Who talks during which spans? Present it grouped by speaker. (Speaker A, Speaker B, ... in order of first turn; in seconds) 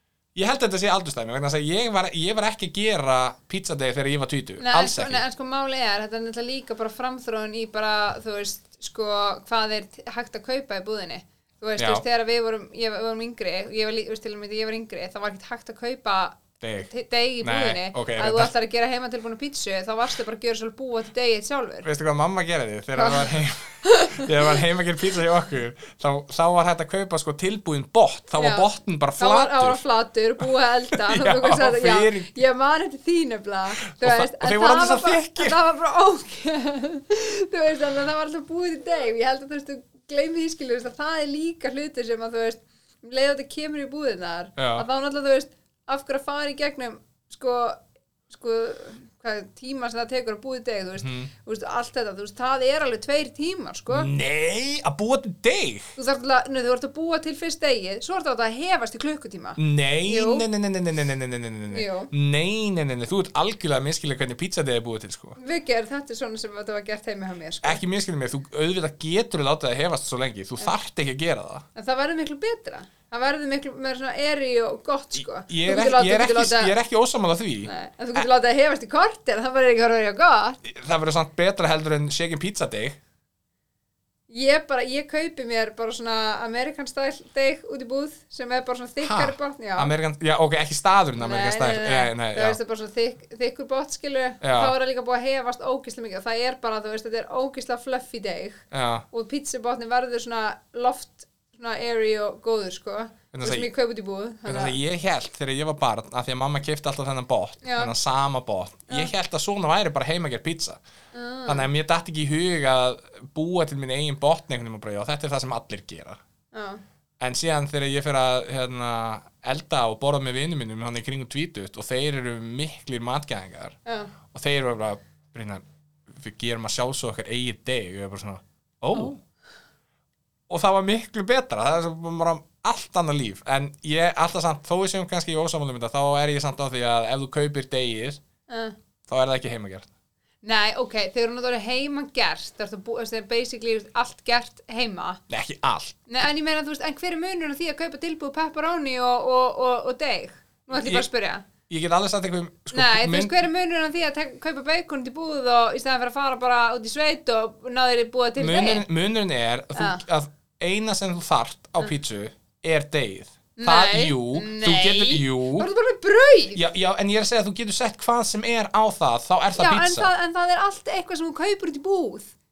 Speaker A: 0.3-5.2, 11.8-12.0, 16.6-16.9, 17.4-18.5, 21.8-29.8, 31.0-32.4, 33.9-35.6, 44.6-44.9, 51.0-51.3, 53.9-56.0, 59.6-65.4, 67.6-71.7, 75.2-78.3, 80.6-83.0, 89.0-92.6, 94.4-94.7, 98.7-99.1, 103.3-103.7, 104.5-110.8, 111.5-116.2, 117.2-123.8, 124.3-129.2, 130.5-138.2, 139.1-139.9, 145.3-146.0, 150.7-151.1, 151.7-153.4, 158.4-165.7, 166.6-170.1
Speaker B: 4.6-21.9, 22.9-24.6, 28.4-54.1, 56.0-60.5, 61.7-62.1, 65.4-67.8, 71.8-76.8, 77.7-80.6, 84.3-89.9, 91.2-104.8, 107.6-107.9, 111.1-111.7, 116.5-116.8, 123.8-124.1, 138.5-138.8, 140.4-145.2, 146.1-151.5, 152.7-158.9, 159.8-160.0, 163.6-166.6, 169.6-172.3